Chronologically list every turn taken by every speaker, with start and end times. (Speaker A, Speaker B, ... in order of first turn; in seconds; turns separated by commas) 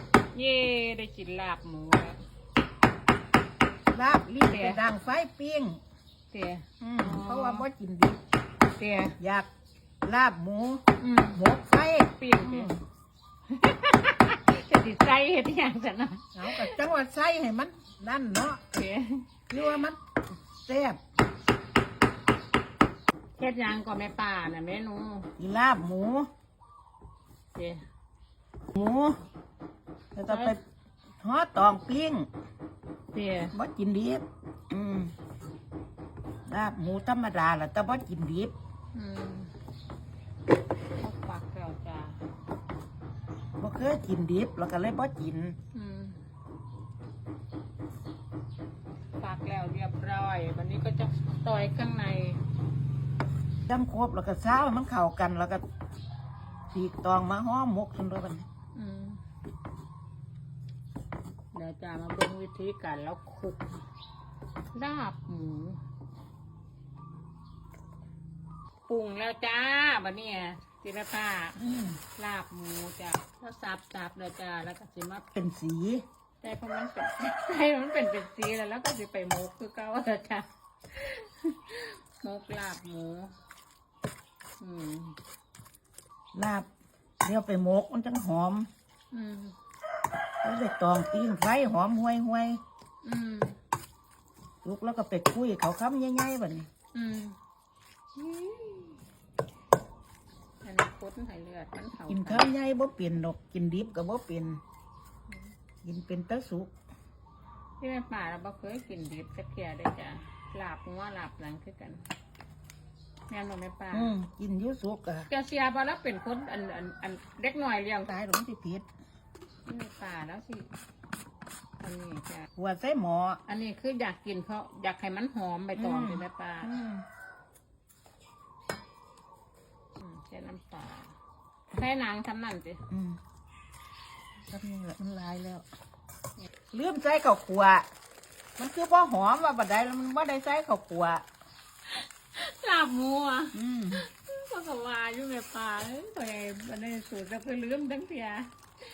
Speaker A: 0.3-2.2, Speaker B: 3.9-5.8, Speaker A: 4.4-4.8, Speaker A: 6.3-7.7, Speaker B: 6.8-8.2, Speaker A: 8.8-9.2, Speaker B: 9.2-9.5, Speaker B: 10.0-12.8, Speaker A: 11.0-11.4, Speaker A: 12.1-12.7, Speaker A: 13.5-16.8, Speaker B: 16.3-18.6, Speaker A: 18.7-19.3, Speaker B: 19.5-20.0, Speaker B: 20.6-21.0, Speaker A: 23.4-25.3, Speaker B: 25.4-26.3, Speaker A: 27.5-27.8, Speaker B: 28.7-29.2, Speaker B: 30.1-30.6, Speaker A: 30.3-30.6, Speaker B: 31.2-32.3, Speaker A: 33.1-33.5, Speaker B: 33.5-35.1, Speaker B: 36.5-38.5, Speaker A: 38.9-39.5, Speaker A: 41.0-42.2, Speaker B: 43.6-45.5, Speaker A: 45.7-46.2, Speaker A: 49.2-52.4, Speaker B: 53.7-55.6, Speaker B: 56.7-58.4, Speaker A: 58.7-59.2, Speaker A: 61.5-63.8, Speaker A: 64.7-65.8, Speaker A: 68.9-75.2, Speaker B: 71.6-72.0, Speaker B: 75.3-76.0, Speaker A: 76.4-83.3, Speaker A: 84.6-85.2, Speaker B: 86.3-86.7, Speaker B: 87.2-88.7, Speaker A: 89.1-89.5, Speaker B: 90.4-92.6, Speaker A: 93.0-93.6, Speaker B: 94.6-96.7, Speaker A: 96.9-97.4, Speaker A: 98.2-99.0, Speaker A: 100.6-102.5, Speaker B: 102.1-104.6, Speaker B: 105.8-106.7, Speaker A: 107.8-112.0, Speaker A: 113.3-114.1, Speaker B: 113.9-115.3, Speaker A: 115.3-118.1, Speaker B: 118.0-118.9, Speaker A: 119.7-120.7, Speaker A: 121.8-122.5, Speaker B: 122.6-123.4, Speaker A: 123.5-126.7, Speaker B: 125.8-127.0, Speaker A: 130.0-131.1, Speaker A: 131.7-132.8, Speaker B: 132.9-133.2, Speaker B: 134.5-135.7, Speaker B: 136.7-137.8, Speaker B: 138.6-141.2, Speaker A: 141.9-148.5, Speaker B: 143.5-144.0